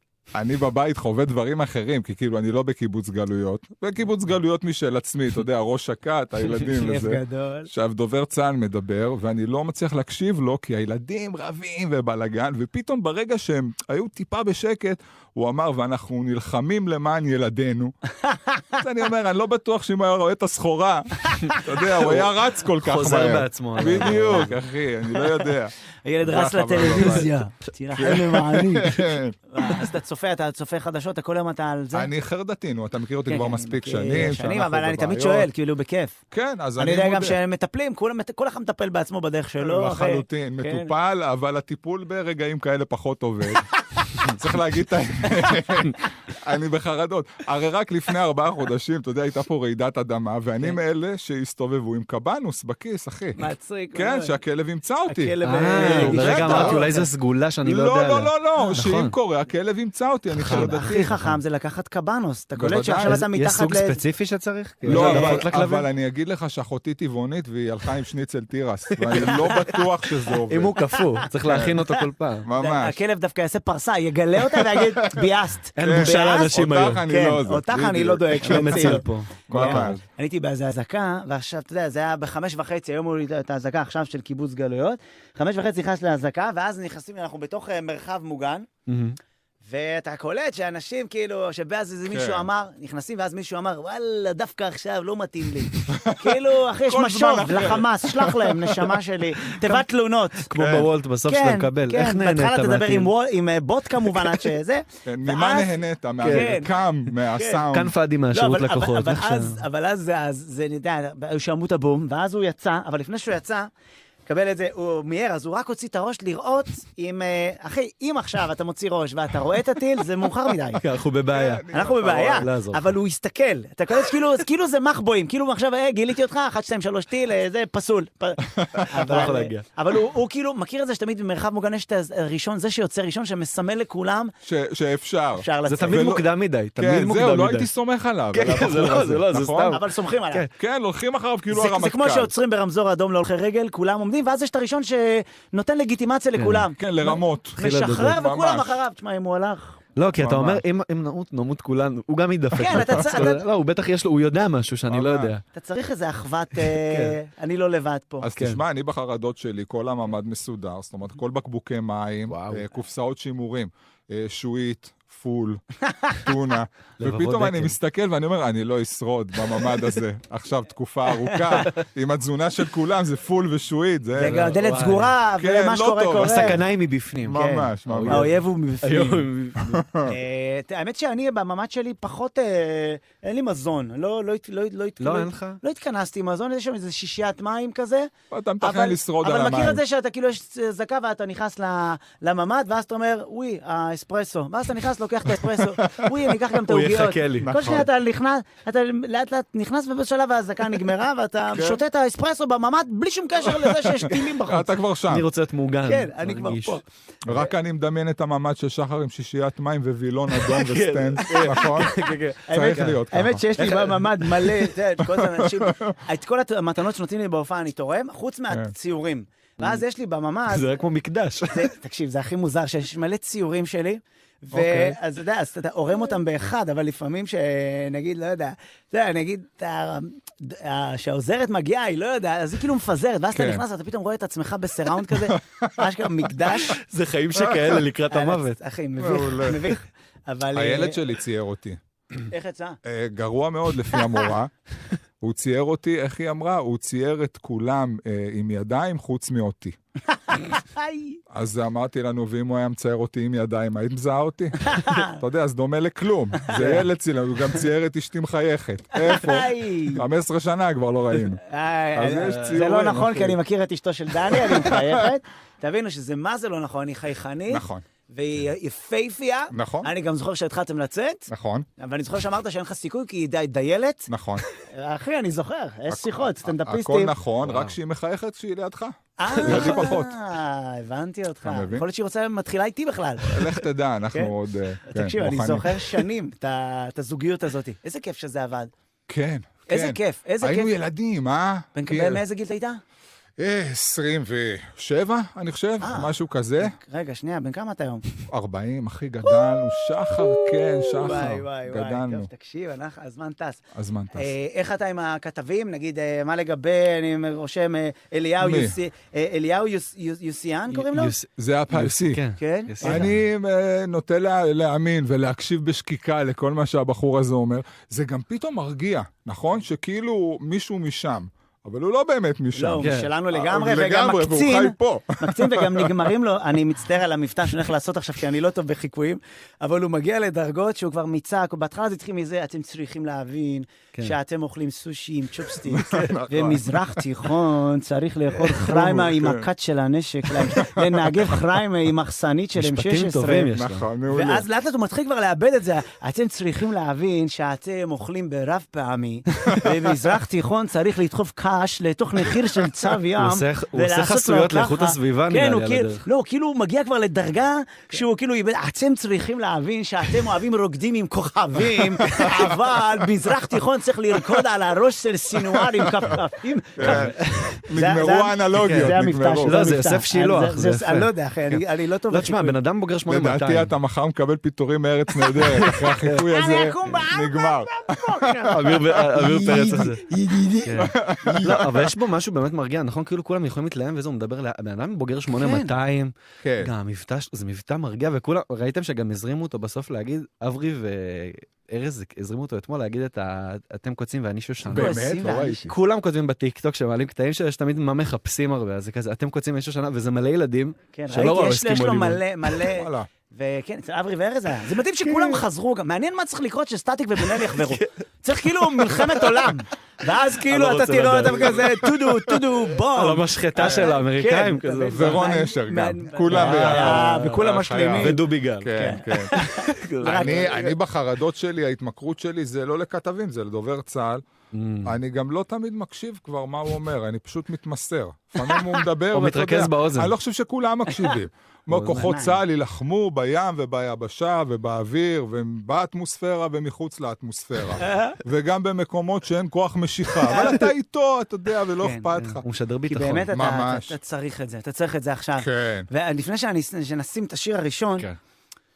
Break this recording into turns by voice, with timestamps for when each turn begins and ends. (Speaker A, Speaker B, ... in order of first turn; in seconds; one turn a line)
Speaker A: 0.3-17.9
Speaker B: 6.8-7.7
Speaker B: 18.2-18.7
Speaker A: 18.8-27.3
Speaker C: 22.8-24.6
Speaker B: 23.9-24.4
Speaker B: 26.1-32.1
Speaker A: 27.9-29.4
Speaker A: 31.9-35.5
Speaker B: 33.3-36.2
Speaker A: 36.3-37.4
Speaker B: 36.8-40.9
Speaker A: 39.6-53.4
Speaker B: 53.4-54.4
Speaker A: 53.9-56.9
Speaker B: 55.1-57.1
Speaker C: 55.4-59.1
Speaker A: 57.6-61.1
Speaker C: 60.4-61.4
Speaker B: 60.5-64.0
Speaker A: 62.6-63.2
Speaker C: 63.0-65.9
Speaker A: 64.9-70.8
Speaker B: 64.9-65.5
Speaker C: 68.9-69.6
Speaker C: 70.5-72.5
Speaker A: 71.4-71.8
Speaker A: 72.4-73.0
Speaker B: 72.6-88.7
Speaker A: 74.6-75.3
Speaker C: 75.8-77.1
Speaker A: 75.8-80.0
Speaker C: 78.4-80.0
Speaker C: 88.9-89.2
Speaker B: 89.6-100.5
Speaker A: 92.1-92.5
Speaker A: 95.9-99.0
Speaker C: 100.5-103.1
Speaker A: 100.6-100.9
Speaker B: 101.3-106.7
Speaker A: 105.1-108.0
Speaker C: 106.2-106.5
Speaker B: 107.3-107.6
Speaker C: 107.7-109.6
Speaker B: 108.3-113.7
Speaker B: 114.3-120.8
Speaker C: 120.8-123.0
Speaker A: 121.3-122.5
Speaker B: 121.7-134.3
Speaker A: 128.6-128.8
Speaker C: 128.9-129.7
Speaker A: 134.4-139.8
Speaker B: 135.4-136.2
Speaker C: 135.7-137.7
Speaker C: 138.3-140.5
Speaker B: 139.7-140.4
Speaker A: 140.6-142.3
Speaker B: 141.5-149.8
Speaker C: 146.4-146.7
Speaker A: 146.8-148.8
Speaker C: 147.6-148.2
Speaker C: 150.0-155.4
Speaker A: 150.2-150.6
Speaker B: 152.6-153.4
Speaker A: 154.9-155.3
Speaker B: 155.5-158.3
Speaker C: 156.6-157.2
Speaker A: 158.2-174.6
Speaker C: 162.3-162.6
Speaker C: 167.0-167.8
Speaker C: 174.2-175.1
Speaker B: 174.2-176.6
Speaker A: 175.4-176.6
Speaker C: 176.2-179.9
Speaker A: 177.2-178.3
Speaker B: 177.3-179.3
Speaker A: 179.6-180.1
Speaker B: 180.0-204.7
Speaker C: 185.0-185.6
Speaker A: 188.3-189.8
Speaker C: 196.7-197.5
Speaker A: 197.4-197.9
Speaker A: 201.5-201.8
Speaker A: 203.5-205.3
Speaker C: 205.1-206.8
Speaker B: 205.9-206.8
Speaker A: 207.2-212.0
Speaker C: 210.5-213.1
Speaker B: 211.3-211.7
Speaker B: 212.5-220.7
Speaker A: 212.5-213.4
Speaker C: 213.6-214.7
Speaker A: 215.0-216.0
Speaker C: 220.5-221.7
Speaker B: 221.5-236.8
Speaker A: 224.5-224.9
Speaker A: 233.3-233.6
Speaker A: 235.1-235.9
Speaker C: 236.7-238.6
Speaker A: 237.4-237.8
Speaker B: 238.1-241.0
Speaker A: 239.0-239.8
Speaker A: 240.6-241.8
Speaker B: 242.3-242.8
Speaker A: 242.8-244.5
Speaker A: 245.2-249.8
Speaker B: 250.3-251.2
Speaker A: 251.3-261.4
Speaker B: 254.7-255.2
Speaker B: 256.4-256.8
Speaker B: 259.0-260.0
Speaker B: 261.4-277.1
Speaker A: 261.9-263.4
Speaker C: 262.3-262.6
Speaker A: 264.3-265.1
Speaker A: 267.5-267.9
Speaker A: 269.5-269.9
Speaker A: 271.3-271.7
Speaker A: 274.1-274.4
Speaker A: 275.9-280.1
Speaker C: 277.4-277.8
Speaker B: 279.2-283.4
Speaker C: 279.4-279.9
Speaker A: 281.4-281.9
Speaker A: 283.3-285.9
Speaker B: 284.9-288.7
Speaker A: 289.1-292.2
Speaker B: 289.7-290.7
Speaker B: 291.8-292.8
Speaker A: 293.4-296.8
Speaker B: 295.8-298.0
Speaker A: 298.3-302.3
Speaker B: 300.1-303.6
Speaker C: 301.1-301.4
Speaker A: 303.7-304.3
Speaker B: 304.1-311.1
Speaker A: 308.4-308.8
Speaker C: 310.7-313.2
Speaker A: 311.4-312.2
Speaker B: 312.4-313.0
Speaker A: 312.8-326.1
Speaker B: 322.6-343.5
Speaker C: 322.8-323.1
Speaker A: 335.6-337.1
Speaker C: 335.9-336.2
Speaker A: 338.4-339.5
Speaker A: 340.2-341.4
Speaker C: 342.6-343.9
Speaker A: 343.4-344.5
Speaker B: 344.1-372.6
Speaker C: 353.2-356.1
Speaker A: 362.1-363.1
Speaker A: 365.4-366.2
Speaker A: 366.8-369.6
Speaker C: 366.8-367.1
Speaker C: 368.6-373.7
Speaker A: 373.1-379.9
Speaker C: 375.3-376.3
Speaker B: 376.3-378.6
Speaker C: 378.5-380.1
Speaker B: 379.2-380.8
Speaker C: 380.6-402.2
Speaker A: 380.8-381.9
Speaker B: 385.4-385.7
Speaker A: 386.4-386.7
Speaker A: 394.7-395.7
Speaker B: 394.7-395.7
Speaker B: 400.9-420.7
Speaker A: 402.7-403.1
Speaker C: 405.1-405.4
Speaker C: 407.3-409.5
Speaker C: 410.4-415.2
Speaker A: 413.6-413.9
Speaker A: 414.9-419.4
Speaker C: 416.3-417.4
Speaker C: 418.0-420.5
Speaker A: 420.0-424.2
Speaker C: 424.5-424.9
Speaker A: 424.8-442.4
Speaker C: 429.1-430.1
Speaker C: 431.7-432.2
Speaker B: 432.0-432.4
Speaker B: 437.8-438.2
Speaker C: 440.3-440.7
Speaker B: 441.8-442.1
Speaker C: 442.1-443.3
Speaker B: 442.9-448.1
Speaker A: 443.3-444.0
Speaker A: 445.4-445.9